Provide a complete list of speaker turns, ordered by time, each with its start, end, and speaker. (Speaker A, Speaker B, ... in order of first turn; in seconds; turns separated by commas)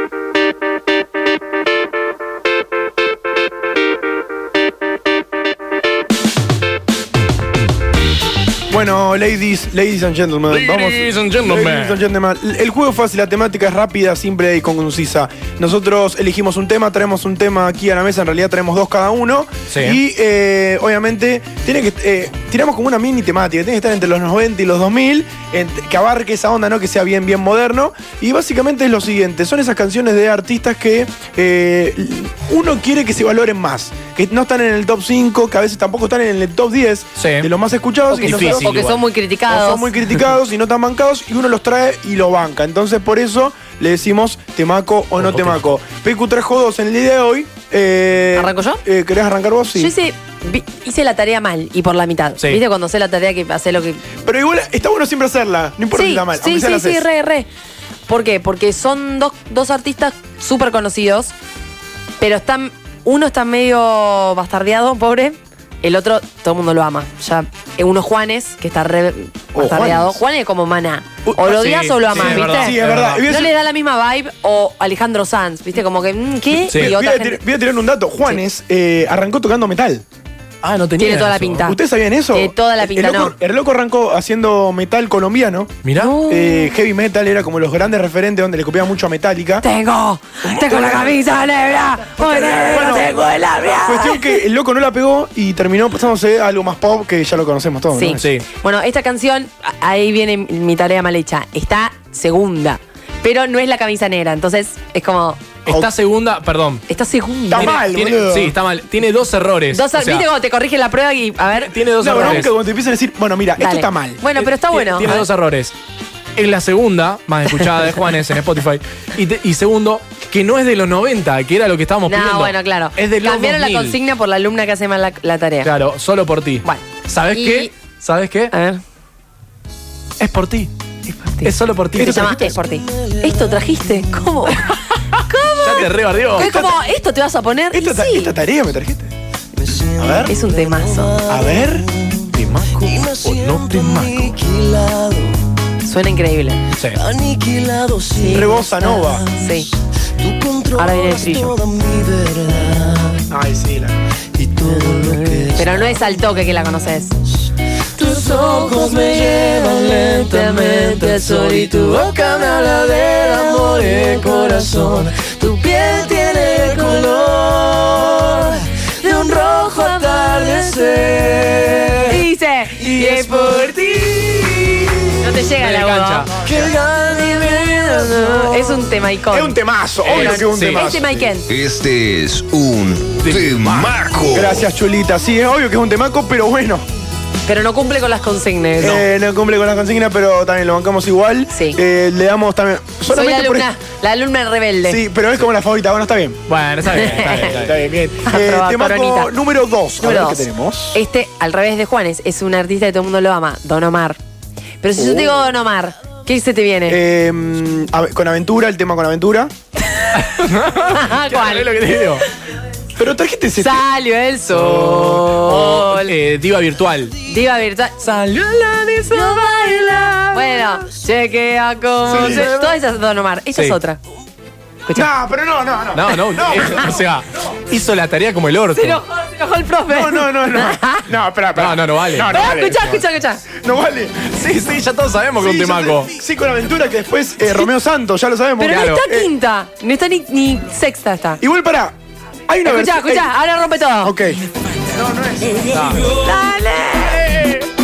Speaker A: 8.7-38.8, Speaker B: 10.5-12.0, Speaker B: 19.7-20.0, Speaker B: 37.2-37.5, Speaker C: 38.1-39.9, Speaker B: 38.2-39.0, Speaker A: 39.5-49.9, Speaker B: 45.2-45.7, Speaker C: 48.4-48.8, Speaker C: 49.8-54.0, Speaker A: 54.2-57.0, Speaker C: 56.0-57.5, Speaker C: 58.1-61.3, Speaker C: 62.2-77.4, Speaker A: 69.5-70.2, Speaker A: 71.3-73.5, Speaker B: 71.4-73.2, Speaker A: 76.7-80.0, Speaker B: 80.6-81.7, Speaker C: 81.0-81.8, Speaker A: 81.6-89.7, Speaker C: 82.3-83.3, Speaker B: 85.8-86.2, Speaker C: 86.0-86.8, Speaker C: 89.6-94.4, Speaker A: 90.4-91.2, Speaker A: 92.0-98.3, Speaker C: 98.0-105.4, Speaker B: 98.2-98.5, Speaker B: 105.7-106.8, Speaker C: 106.9-107.8, Speaker A: 107.5-108.5, Speaker B: 107.5-110.3, Speaker C: 109.7-112.4, Speaker B: 111.5-112.5, Speaker A: 112.0-114.2, Speaker C: 113.6-115.2, Speaker B: 114.4-115.7, Speaker B: 116.4-124.0, Speaker C: 122.1-125.7, Speaker B: 125.6-128.5, Speaker C: 126.6-127.7, Speaker C: 128.5-128.8, Speaker B: 130.2-130.7, Speaker C: 131.3-134.7, Speaker B: 131.4-132.4, Speaker A: 132.0-132.6, Speaker C: 135.3-138.3, Speaker B: 135.6-136.5, Speaker A: 136.4-136.8, Speaker A: 137.7-139.1, Speaker D: 139.6-142.2, Speaker A: 140.0-140.3, Speaker C: 140.3-141.2, Speaker A: 141.3-141.9, Speaker B: 142.3-144.4, Speaker D: 142.7-145.3, Speaker C: 145.8-146.6, Speaker B: 146.8-147.0, Speaker D: 146.9-149.7, Speaker C: 148.2-149.7, Speaker A: 148.3-149.2, Speaker D: 150.2-153.2, Speaker C: 150.7-151.6, Speaker A: 153.3-154.1, Speaker D: 154.3-156.0, Speaker C: 155.2-157.1, Speaker D: 158.0-172.1, Speaker C: 160.2-161.6, Speaker C: 172.1-173.8, Speaker D: 172.8-174.9, Speaker C: 175.2-176.3, Speaker B: 175.6-176.5, Speaker D: 176.4-178.9, Speaker C: 177.8-181.5, Speaker A: 179.3-181.3, Speaker B: 180.1-180.9, Speaker E: 181.5-184.6, Speaker B: 183.2-183.9, Speaker A: 184.3-186.9, Speaker C: 187.5-189.0, Speaker A: 188.8-193.7, Speaker C: 191.5-191.8, Speaker C: 193.1-195.0, Speaker A: 194.9-196.4, Speaker B: 196.5-197.8, Speaker A: 196.9-201.0, Speaker C: 196.9-197.5, Speaker C: 198.3-199.3, Speaker C: 200.0-204.2, Speaker C: 204.8-207.0, Speaker A: 205.0-205.4, Speaker A: 206.9-209.5, Speaker B: 210.1-212.2, Speaker C: 210.9-211.7, Speaker A: 213.0-213.8, Speaker C: 213.6-216.1, Speaker B: 214.5-217.2, Speaker C: 217.3-218.5, Speaker C: 219.1-224.0, Speaker B: 219.1-220.2, Speaker D: 219.4-220.3, Speaker A: 222.1-222.5, Speaker A: 224.9-227.0, Speaker B: 225.9-229.0, Speaker C: 228.8-231.0, Speaker A: 229.9-233.0, Speaker B: 231.6-232.5, Speaker C: 232.3-233.4, Speaker A: 233.6-234.3, Speaker B: 234.3-236.1, Speaker A: 235.4-239.3, Speaker C: 238.6-241.4, Speaker B: 238.7-239.0, Speaker A: 241.4-241.9, Speaker A: 242.5-243.3, Speaker C: 242.7-244.1, Speaker A: 244.0-244.4, Speaker A: 245.0-246.0, Speaker B: 245.7-246.1, Speaker C: 246.2-247.4